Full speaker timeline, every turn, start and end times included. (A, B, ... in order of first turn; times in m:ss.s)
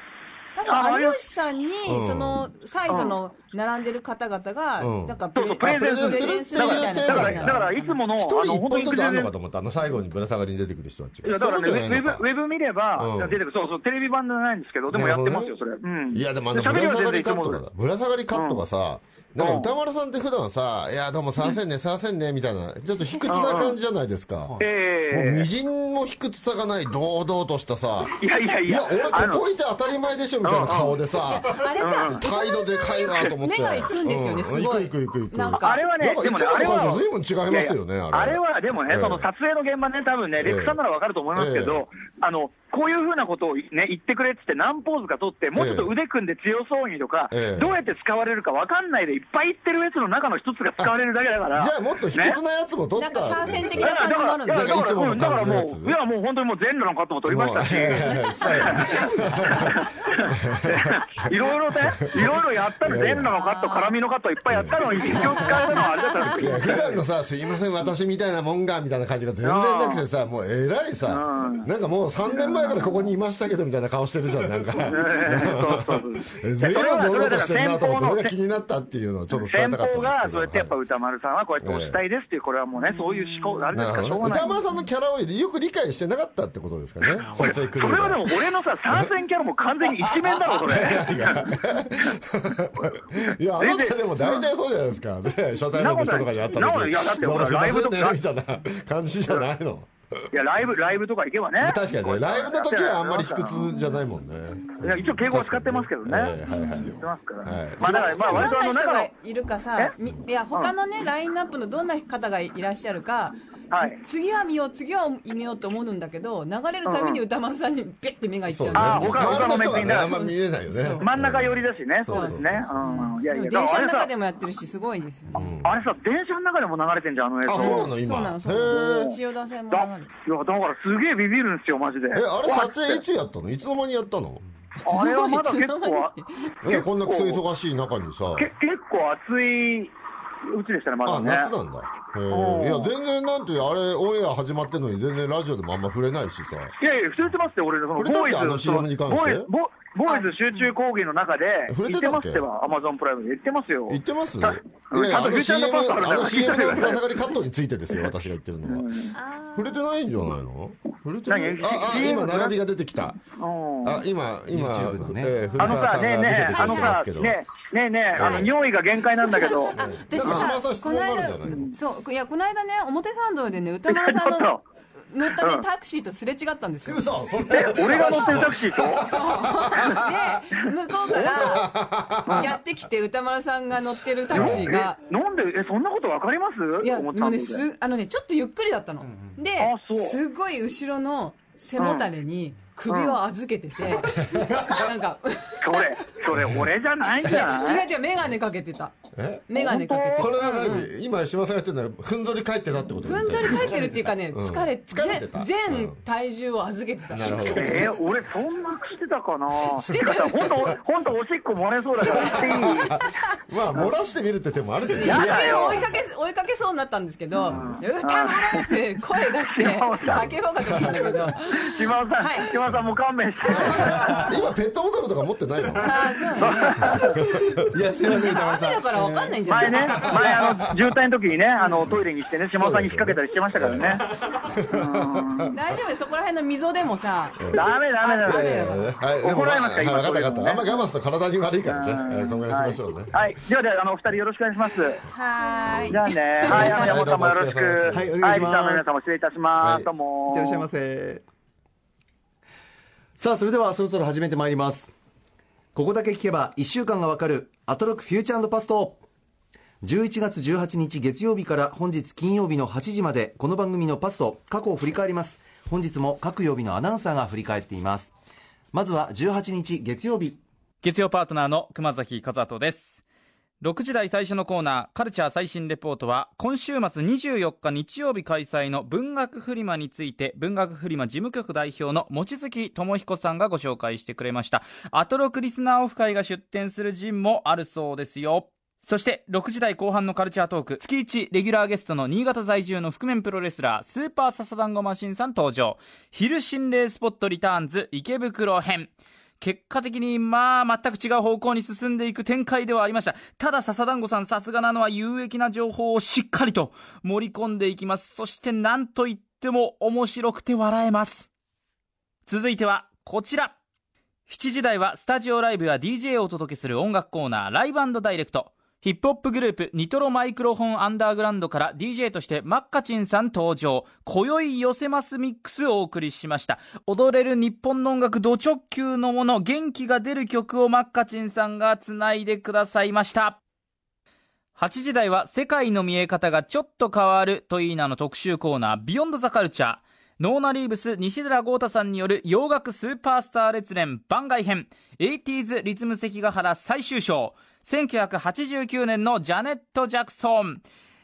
0:00.5-0:08.0 A
0:00.6-0:01.2 B
0:01.8-0:02.5 C
0:02.9-0:03.2 B
0:04.8-0:12.2 C
0:05.4-0:09.3 B
0:11.2-0:17.6 B
0:13.0-0:13.4 C
0:14.9-0:15.5 C
0:16.1-0:24.6 C
0:18.3-0:18.6 B
0:19.4-0:19.7 B
0:23.3-0:23.8 B
0:24.6-0:25.5 B
0:25.1-0:39.3 C
0:28.2-0:29.4 B
0:30.4-0:31.0 B
0:31.2-0:35.8 A
0:31.8-0:32.2 B
0:35.5-0:52.4 B
0:40.4-0:40.8 C
0:41.3-0:41.8 C
0:45.5-0:46.0 C
0:47.3-0:47.8 C
0:51.5-0:56.0 C
0:53.0-0:54.9 A
0:53.8-1:07.0 B
0:57.2-1:03.3 C
0:58.1-0:58.5 A
1:03.3-1:04.0 A
1:04.5-1:20.7 C
1:05.0-1:06.6 A
1:09.4-1:10.0 B
1:11.1-1:11.7 B
1:12.4-1:13.0 A
1:14.9-1:18.3 B
1:19.4-1:24.5 B
1:21.6-1:22.0 C
1:22.7-1:23.7 A
1:23.7-1:29.1 C
1:24.3-1:24.8 A
1:27.2-1:31.5 B
1:30.0-1:40.3 C
1:33.6-1:34.4 B
1:35.7-1:38.2 B
1:40.3-1:43.7 B
1:41.6-1:48.5 C
1:44.8-1:49.1 B
1:46.4-1:47.0 A
1:47.8-2:01.1 A
1:53.7-1:54.0 B
1:56.8-1:57.2 B
1:58.5-2:02.8 C
1:58.7-2:00.1 B
2:01.0-2:04.1 B
2:02.1-2:05.4 A
2:05.3-2:05.8 C
2:05.4-2:07.9 B
2:07.4-2:09.1 C
2:07.5-2:10.1 A
2:08.6-2:09.2 B
2:09.7-2:13.0 B
2:12.1-2:14.4 C
2:14.8-2:16.5 A
2:14.8-2:16.1 B
2:16.6-2:18.5 C
2:16.6-2:17.4 B
2:18.4-2:19.9 B
2:20.5-2:21.5 B
2:21.0-2:26.7 C
2:22.3-2:22.9 B
2:26.8-2:37.1 B
2:28.0-2:29.5 C
2:30.1-2:30.7 A
2:31.7-2:32.4 C
2:33.9-2:38.9 C
2:38.6-2:39.1 B
2:39.1-2:39.8 A
2:39.5-2:43.2 C
2:41.3-2:42.6 B
2:43.3-2:44.0 B
2:43.8-2:47.4 C
2:44.5-2:45.8 D
2:45.6-2:50.5 B
2:46.5-2:47.0 A
2:48.1-2:48.5 C
2:49.2-2:54.6 A
2:49.7-2:51.7 C
2:53.9-2:54.6 B
2:55.1-2:57.0 A
2:56.8-3:00.3 C
2:57.5-2:59.1 B
2:59.0-3:01.8 A
3:01.1-3:02.6 C
3:02.3-3:05.0 A
3:04.3-3:07.6 B
3:04.3-3:04.6 C
3:06.8-3:15.9 A
3:09.0-3:09.3 D
3:09.6-3:10.2 B
3:11.8-3:12.1 B
3:12.9-3:13.2 B
3:14.0-3:14.8 C
3:15.6-3:17.9 B
3:16.3-3:16.6 C
3:17.2-3:18.9 A
3:19.1-3:19.5 C
3:19.5-3:20.9 A
3:19.5-3:20.4 B
3:20.2-3:26.0 C
3:23.0-3:27.9 A
3:23.6-3:23.9 D
3:27.1-3:27.9 C
3:27.4-3:32.9 B
3:29.6-3:30.7 A
3:32.1-3:32.4 A
3:32.2-3:35.8 C
3:34.9-3:42.5 A
3:35.0-3:35.8 B
3:37.4-3:38.7 B
3:37.5-3:37.8 C
3:39.4-3:40.3 B
3:41.5-3:44.3 B
3:43.5-3:44.3 A
3:43.6-3:46.0 C
3:45.8-3:47.0 A
3:46.4-3:47.2 B
3:46.8-3:47.6 C
3:47.2-3:49.4 D
3:48.0-3:50.2 A
3:49.5-3:54.0 B
3:50.0-3:50.8 C
3:52.6-3:55.5 C
3:54.7-3:55.5 B
3:55.5-3:58.8 A
3:57.4-3:57.7 C
3:57.5-4:00.6 B
3:58.2-4:03.2 C
4:01.6-4:05.0 B
4:05.1-4:06.9 A
4:05.7-4:08.5 C
4:05.9-4:10.7 B
4:07.9-4:08.8 D
4:09.6-4:09.9 C
4:10.3-4:11.2 D
4:13.2-4:14.9 D
4:15.7-4:19.0 D
4:19.8-4:28.1 D
4:28.7-4:30.4 D
4:30.8-4:33.0 E
4:33.6-5:11.3 E
5:12.2-5:13.5 E
5:14.3-5:33.4 E
5:34.6-5:50.6 E